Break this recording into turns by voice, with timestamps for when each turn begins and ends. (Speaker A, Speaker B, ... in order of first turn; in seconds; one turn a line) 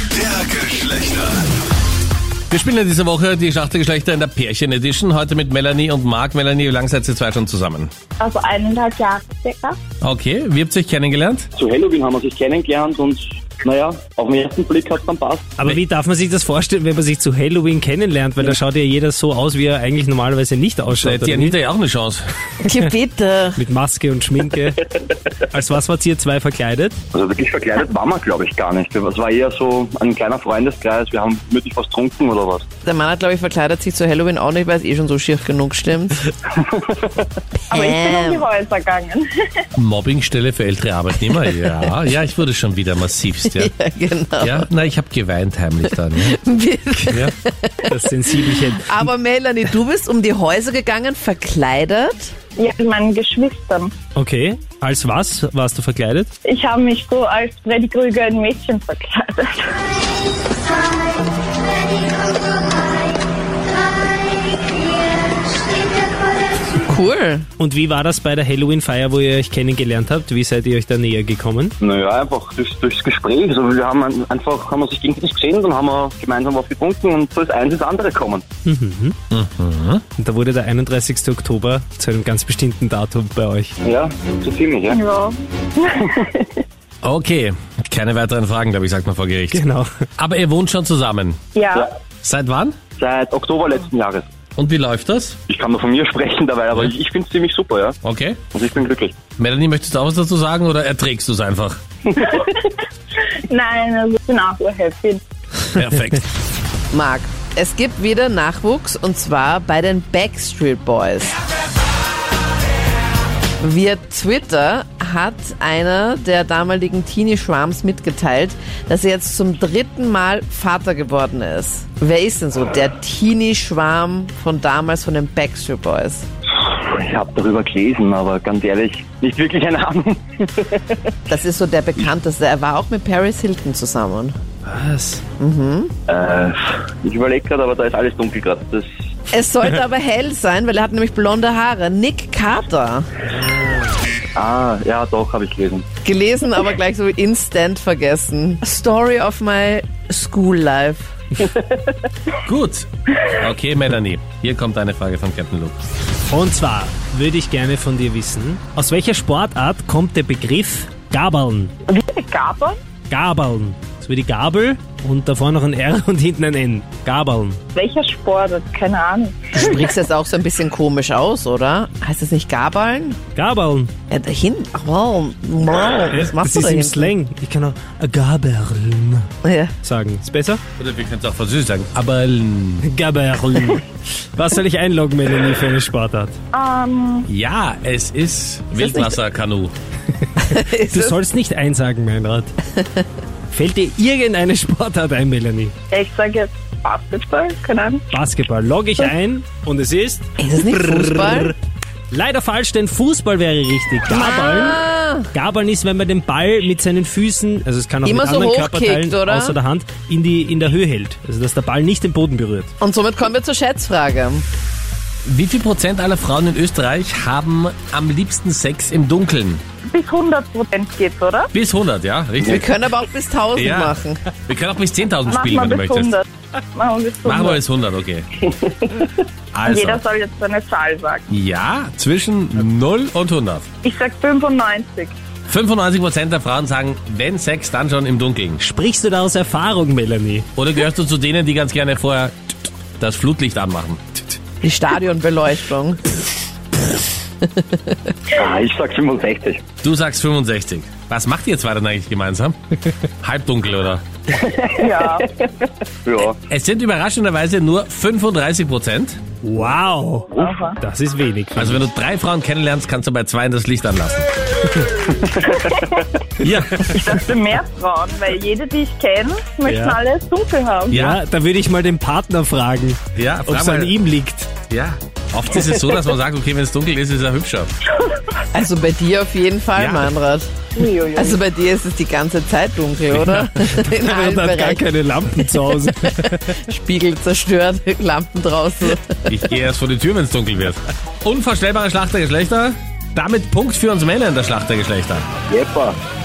Speaker A: 0.2-1.4
Speaker A: 2.5-7.9
Speaker B: 8.2-9.8
Speaker A: 10.0-11.5
Speaker C: 11.6-15.5
Speaker D: 15.6-21.6
Speaker A: 20.9-22.2
Speaker E: 22.6-23.6
Speaker D: 23.6-24.8
Speaker D: 25.5-27.0
Speaker C: 27.1-32.6
Speaker E: 32.8-36.2
Speaker C: 36.6-37.0
Speaker E: 37.7-38.5
Speaker B: 37.7-39.3
Speaker A: 39.8-43.7
Speaker E: 43.5-44.7
Speaker A: 44.4-46.4
Speaker E: 46.2-52.3
Speaker D: 47.9-49.0
Speaker B: 52.6-53.9
Speaker D: 54.2-56.3
Speaker B: 56.4-59.8
Speaker E: 66.8-67.5
Speaker D: 67.6-71.8
Speaker C: 71.8-78.5
Speaker D: 78.7-79.2
Speaker A: 79.3-80.0
Speaker D: 80.2-83.7
Speaker C: 83.8-85.0
Speaker B: 84.9-86.5
Speaker A: 87.0-89.6
Speaker D: 89.5-90.0
Speaker A: 90.2-91.4
Speaker B: 91.5-91.9
Speaker A: 92.2-92.8
Speaker C: 93.0-94.3
Speaker A: 94.6-95.4
Speaker C: 95.5-98.0
Speaker A: 98.0-98.4
Speaker C: 98.5-99.2
Speaker A: 99.4-101.8
Speaker B: 102.2-102.7
Speaker B: 103.5-105.2
Speaker A: 105.8-106.2
Speaker E: 106.9-111.4
Speaker E: 113.6-126.3
Speaker C: 126.6-131.0
Speaker E: 131.3-134.4
Speaker D: 134.7-135.2
Speaker E: 135.4-135.9
Speaker C: 136.1-138.9
Speaker E: 139.3-143.1
Speaker C: 144.4-145.9
Speaker E: 146.0-151.1
Speaker A: 152.5-155.8
Speaker D: 156.3-161.7
Speaker B: 161.9-162.8
Speaker D: 163.1-167.6
Speaker B: 167.7-169.6
Speaker E: 169.5-173.2
Speaker D: 173.3-173.9
Speaker E: 174.1-177.1
Speaker D: 176.1-179.3
Speaker E: 179.4-179.7
Speaker D: 179.8-180.6
Speaker A: 180.8-182.9
Speaker D: 182.8-186.4
Speaker B: 186.5-187.3
Speaker A: 187.3-189.7
Speaker E: 188.8-189.2
Speaker D: 190.4-192.5
Speaker E: 190.4-191.2
Speaker D: 193.5-195.7
Speaker B: 195.9-198.0
Speaker D: 198.1-201.6
Speaker E: 200.4-201.5
Speaker D: 202.1-212.7
Speaker E: 204.1-205.3
Speaker E: 208.0-209.6
Speaker E: 212.8-214.4
Speaker A: 215.2-219.6
Speaker B: 219.9-221.5
Speaker A: 221.5-222.8
Speaker E: 222.5-224.2
Speaker A: 223.6-226.2
Speaker B: 225.2-227.6
Speaker A: 227.2-228.3
Speaker C: 228.6-229.0
Speaker A: 229.6-230.0
Speaker B: 229.6-231.3
Speaker A: 231.3-233.7
Speaker B: 233.8-235.2
Speaker A: 235.5-238.6
Speaker D: 238.6-240.5
Speaker A: 240.6-244.2
Speaker E: 244.6-246.2
Speaker C: 248.3-249.6
Speaker A: 249.8-252.6
Speaker A: 253.2-254.0
Speaker C: 254.4-255.2
Speaker B: 254.8-255.3
Speaker C: 256.1-256.4
Speaker A: 256.5-259.2
Speaker D: 259.4-261.9
Speaker C: 260.3-260.6
Speaker B: 260.4-260.8
Speaker A: 261.6-264.2
Speaker C: 265.0-266.0
Speaker A: 266.4-267.2
Speaker B: 266.9-271.0
Speaker D: 269.6-270.0
Speaker A: 270.9-271.2
Speaker D: 270.9-274.5
Speaker A: 273.2-274.0
Speaker A: 274.7-277.7
Speaker E: 278.5-280.5
Speaker A: 279.8-280.1
Speaker B: 280.8-281.3
Speaker E: 281.2-289.4
Speaker D: 283.2-286.6
Speaker A: 289.3-295.2
Speaker C: 295.5-296.0